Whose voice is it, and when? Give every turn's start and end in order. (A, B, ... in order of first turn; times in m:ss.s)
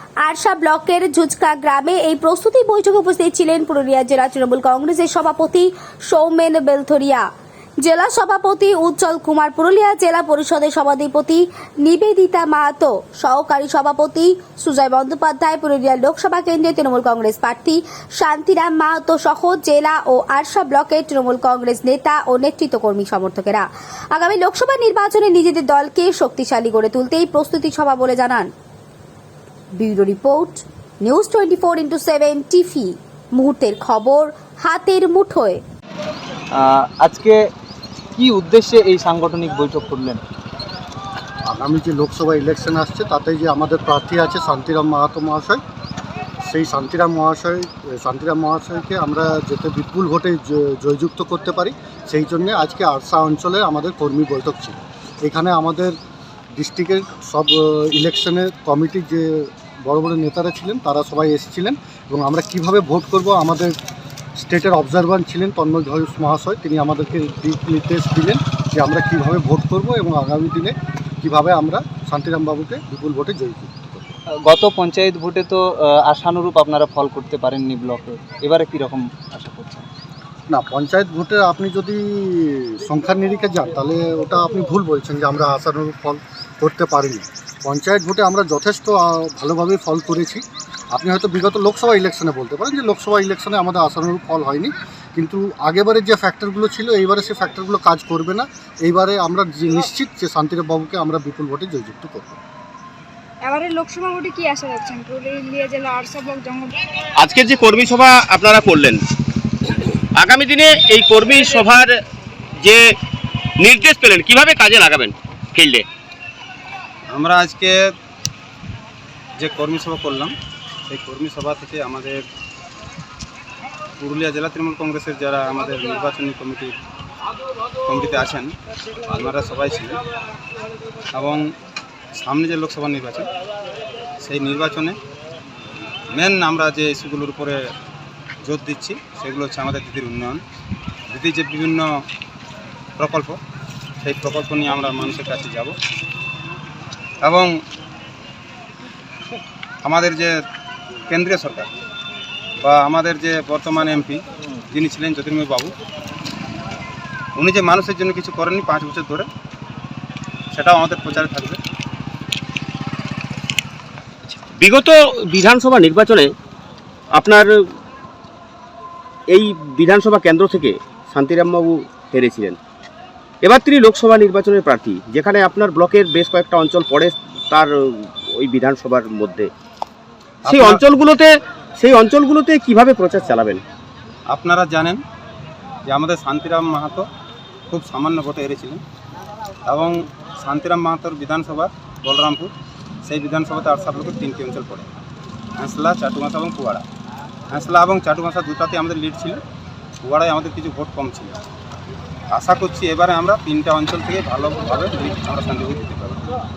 0:00.2-0:07.3 A
0:07.8-0:28.5 A
0:29.8-0:35.6 A
0:36.5-0:37.5 B
0:38.2-0:40.2 B
0:41.5-0:45.6 C
0:46.4-0:56.0 C
0:56.6-1:03.8 C
1:04.4-1:14.1 C
1:14.4-1:19.9 B
1:20.5-1:42.4 C
1:43.4-1:46.7 D
1:47.2-1:49.0 E
1:50.2-1:52.0 E
1:53.6-1:55.9 E
1:57.1-1:57.8 F
1:59.4-2:00.3 F
2:00.9-2:02.2 F
2:04.0-2:06.7 F
2:07.8-2:08.5 F
2:09.1-2:10.0 F
2:11.1-2:11.5 F
2:12.2-2:13.3 F
2:14.2-2:15.0 F
2:16.1-2:17.6 F
2:18.4-2:20.4 F
2:21.1-2:21.9 F
2:23.0-2:23.4 F
2:24.0-2:25.8 F
2:27.2-2:27.5 F
2:29.8-2:30.3 F
2:31.1-2:31.7 F
2:32.6-2:35.7 F
2:37.4-2:39.3 F
2:40.5-2:41.6 F
2:44.3-2:46.3 E
2:47.2-2:47.6 E
2:49.3-2:52.6 E
2:53.4-2:59.5 E
3:00.4-3:00.8 F
3:00.4-3:03.6 E
3:04.3-3:05.0 F
3:05.9-3:07.1 F
3:07.7-3:08.8 F
3:09.7-3:12.5 F
3:13.1-3:14.9 F
3:15.6-3:16.8 F
3:17.5-3:19.4 F
3:20.0-3:21.4 F
3:22.3-3:26.4 F